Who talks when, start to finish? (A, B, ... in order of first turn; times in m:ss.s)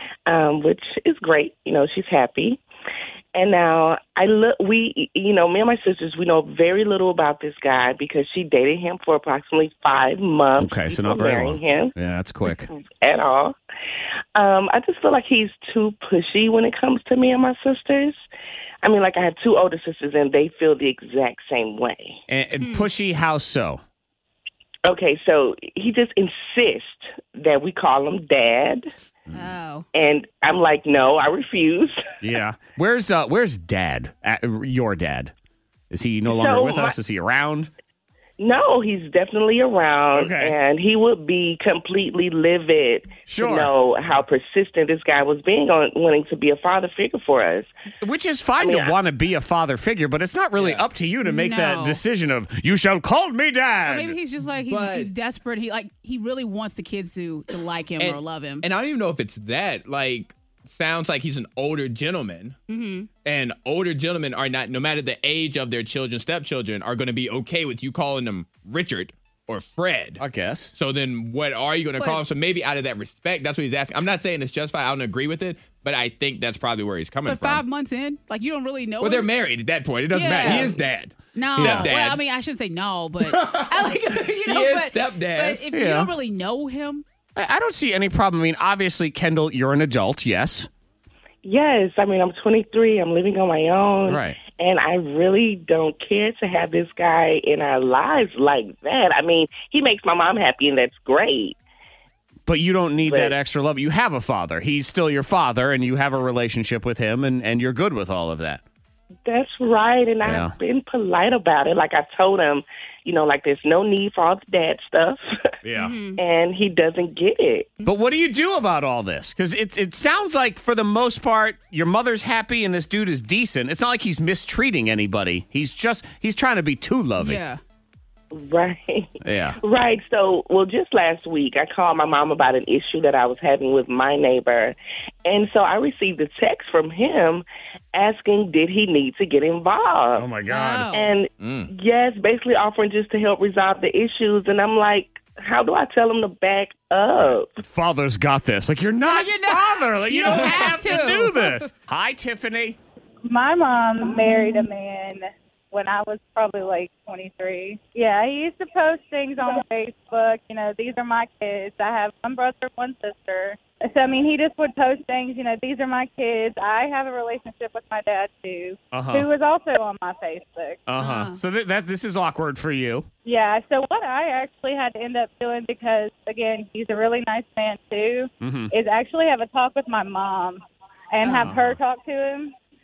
0:00.2-0:02.6 A
0:03.3-0:11.9 A
0:10.6-0:12.7 B
0:12.8-0:13.6 A
0:14.3-0:18.2 A
0:18.8-0:22.2 A
0:22.3-0:23.8 B
0:22.6-0:22.9 C
0:24.8-0:28.9 A
0:29.3-0:29.8 C
0:29.9-0:32.0 A
0:32.2-0:35.3 B
0:35.9-0:37.7 B
0:36.3-0:37.0 A
0:38.4-0:47.7 A
0:40.1-0:40.6 B
0:43.3-0:43.7 B
0:48.0-0:54.2 B
0:48.6-0:49.0 A
0:50.6-0:50.8 D
0:51.2-0:52.0 C
0:53.8-0:58.6 C
0:54.7-0:55.1 D
0:58.0-1:02.6 D
1:02.7-1:03.1 C
1:03.2-1:10.2 D
1:10.2-1:10.7 B
1:10.7-1:17.6 D
1:17.2-1:19.3 C
1:19.0-1:22.2 D
1:20.1-1:20.8 C
1:21.3-1:27.0 C
1:21.6-1:21.9 B
1:23.2-1:25.6 D
1:25.7-1:26.1 B
1:27.4-1:30.7 B
1:31.4-1:41.6 A
1:34.1-1:34.4 B
1:42.5-1:48.6 B
1:43.0-1:43.4 A
1:49.2-1:55.2 A
1:50.2-1:50.5 B
1:55.6-1:56.0 B
1:55.8-1:56.2 C
1:56.2-1:57.7 A
1:57.8-2:07.4 B
2:07.2-2:07.6 C
2:08.3-2:20.3 A
2:09.2-2:09.6 B
2:20.2-2:20.9 B
2:20.5-2:21.1 C
2:20.9-2:27.6 A
2:21.4-2:21.7 D
2:27.2-2:32.8 B
2:29.0-2:31.6 C
2:33.2-2:35.2 A
2:35.7-2:38.8 A
2:37.4-2:39.5 E
2:39.5-2:40.0 A
2:40.0-2:48.8 E
2:40.9-2:41.7 A
2:45.0-2:45.4 A
2:46.0-2:46.4 A
2:48.9-2:49.3 B
2:49.1-2:50.1 A
2:49.6-2:50.6 E
2:50.9-2:53.1 B
2:51.0-2:51.4 C
2:53.2-2:53.5 A
2:53.4-2:58.1 E
2:56.3-2:56.8 A
2:58.4-2:58.7 B
2:58.8-3:00.6 E
3:01.1-3:02.0 A
3:01.2-3:01.6 C
3:01.4-3:01.8 B
3:01.8-3:02.4 E